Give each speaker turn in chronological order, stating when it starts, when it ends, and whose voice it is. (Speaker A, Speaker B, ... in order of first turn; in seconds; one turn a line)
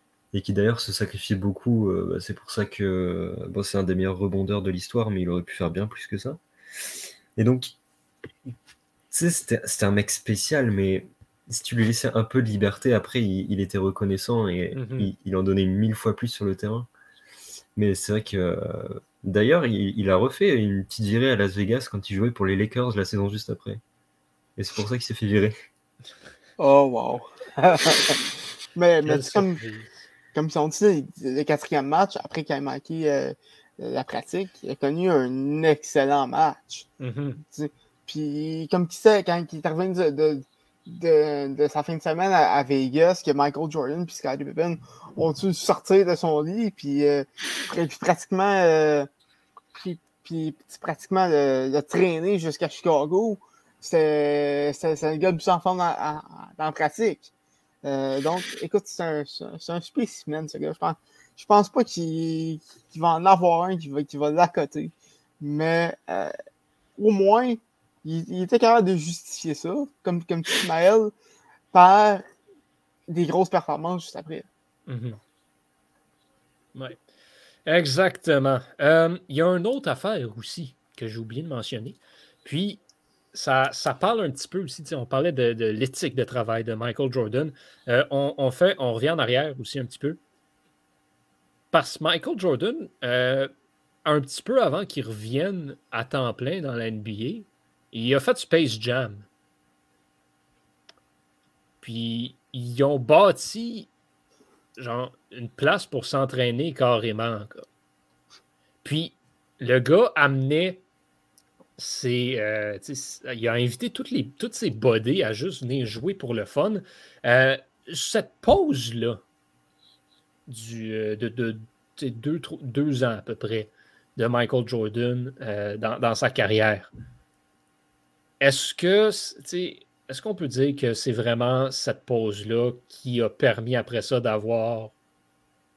Speaker A: 0.3-7.7
Speaker A: 9.1-16.9
Speaker B: 14.7-15.1
Speaker A: 17.8-23.8
Speaker A: 24.6-25.6
Speaker C: 26.6-28.2
Speaker C: 28.8-29.6
Speaker B: 29.1-29.9
Speaker C: 30.3-36.9
Speaker B: 37.0-37.4
Speaker C: 37.5-49.1
Speaker C: 49.8-57.3
Speaker C: 57.8-66.3
Speaker C: 67.0-71.1
Speaker C: 71.7-72.3
Speaker C: 73.1-74.5
Speaker B: 74.9-75.2
Speaker B: 76.8-77.0
Speaker B: 77.7-82.8
Speaker B: 83.3-90.2
Speaker B: 91.7-93.5
Speaker B: 94.0-99.3
Speaker B: 101.8-103.9
Speaker B: 104.8-107.7
Speaker B: 108.8-110.8
Speaker B: 111.8-119.2
Speaker B: 120.5-126.9
Speaker B: 128.4-134.9